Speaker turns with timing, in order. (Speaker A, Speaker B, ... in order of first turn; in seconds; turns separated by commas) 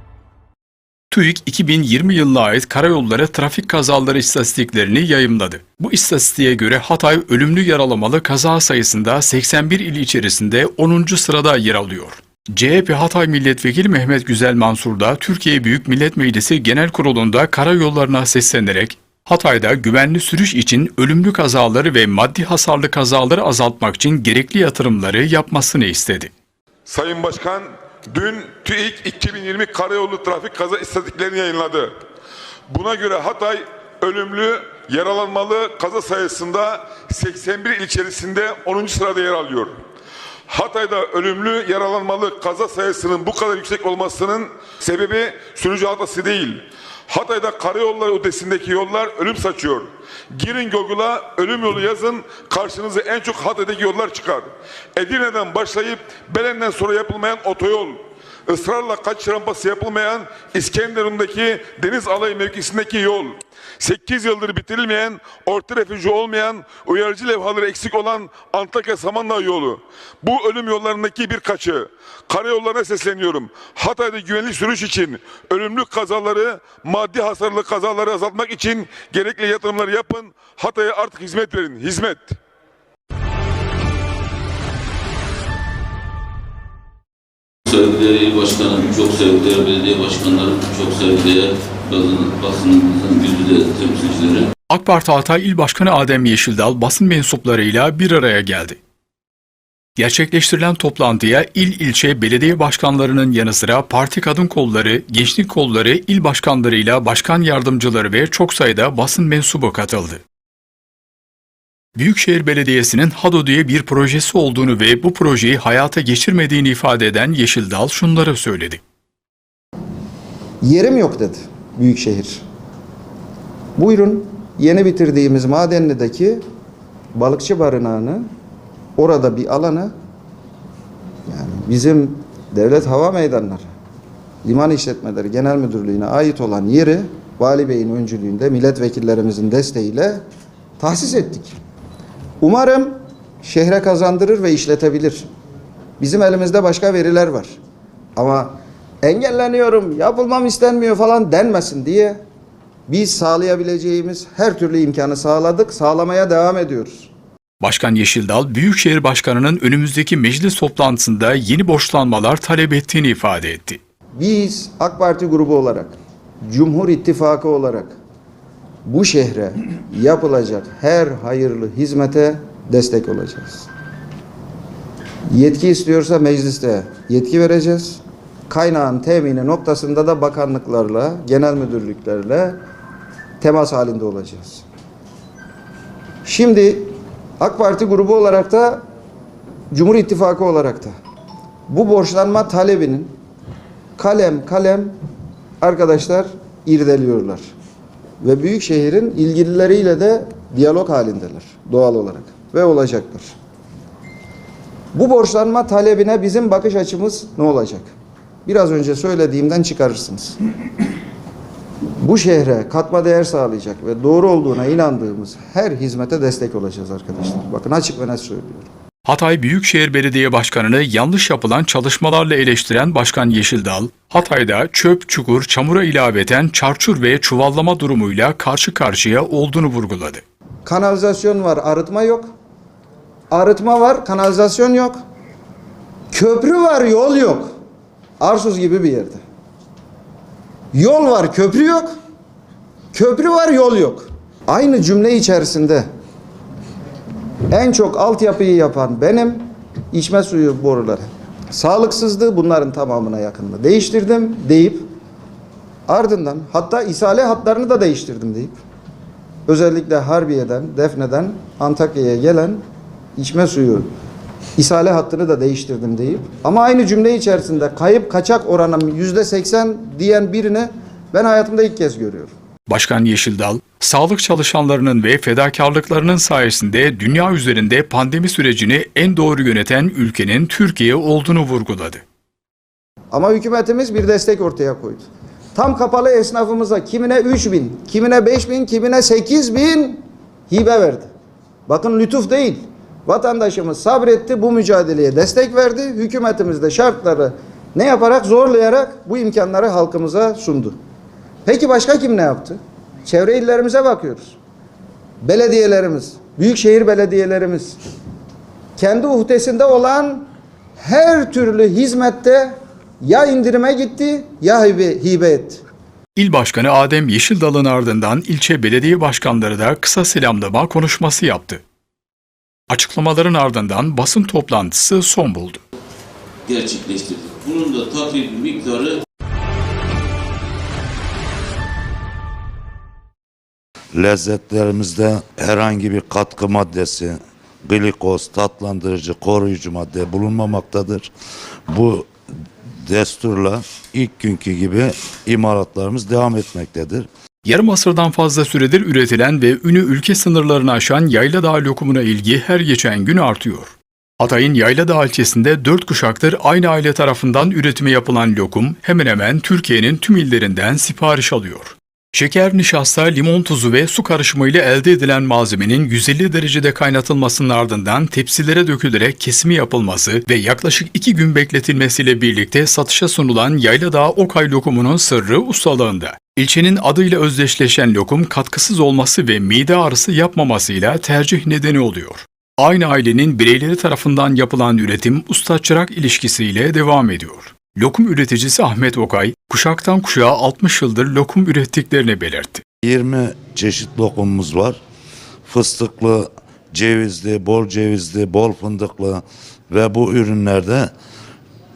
Speaker A: 1.1-26.3, Speaker B: 26.9-31.9, Speaker B: 32.7-39.8, Speaker B: 40.5-82.4, Speaker C: 87.7-94.5, Speaker A: 94.7-98.8, Speaker A: 100.0-110.2, Speaker A: 112.0-118.8, Speaker D: 120.6-122.4, Speaker D: 123.8-126.4, Speaker D: 127.1-128.3, Speaker D: 129.0-129.9, Speaker D: 131.3-133.7, Speaker D: 134.4-140.2, Speaker D: 140.8-141.6, Speaker D: 142.4-145.3, Speaker D: 146.0-147.5, Speaker D: 148.2-152.2, Speaker D: 152.9-157.1, Speaker A: 157.6-163.8, Speaker D: 164.2-165.9, Speaker D: 166.5-167.9, Speaker D: 168.8-173.7, Speaker D: 175.3-182.6, Speaker D: 183.4-184.6, Speaker D: 186.2-188.8, Speaker D: 189.7-190.9, Speaker D: 191.7-193.1, Speaker D: 193.9-194.9, Speaker D: 195.6-197.5, Speaker D: 198.2-203.3, Speaker D: 204.9-207.9, Speaker D: 208.4-210.4, Speaker D: 212.0-218.7, Speaker A: 219.1-230.2, Speaker D: 230.6-232.3, Speaker D: 233.3-235.0, Speaker D: 236.1-237.5, Speaker D: 238.2-239.2, Speaker D: 240.7-241.9, Speaker D: 242.9-245.8, Speaker D: 247.5-254.8, Speaker D: 255.9-258.6, Speaker D: 259.5-262.6, Speaker D: 263.1-263.9, Speaker D: 264.6-272.3, Speaker A: 272.7-282.0, Speaker D: 283.1-291.1, Speaker D: 291.7-300.8, Speaker D: 301.4-304.4, Speaker D: 305.2-307.8, Speaker D: 308.8-310.3, Speaker D: 310.8-315.6, Speaker A: 316.1-321.6, Speaker A: 322.7-325.6, Speaker C: 326.4-329.0, Speaker E: 333.9-341.1, Speaker E: 341.7-342.1, Speaker E: 342.8-347.1, Speaker A: 347.4-392.6, Speaker E: 392.8-394.8, Speaker E: 395.4-400.9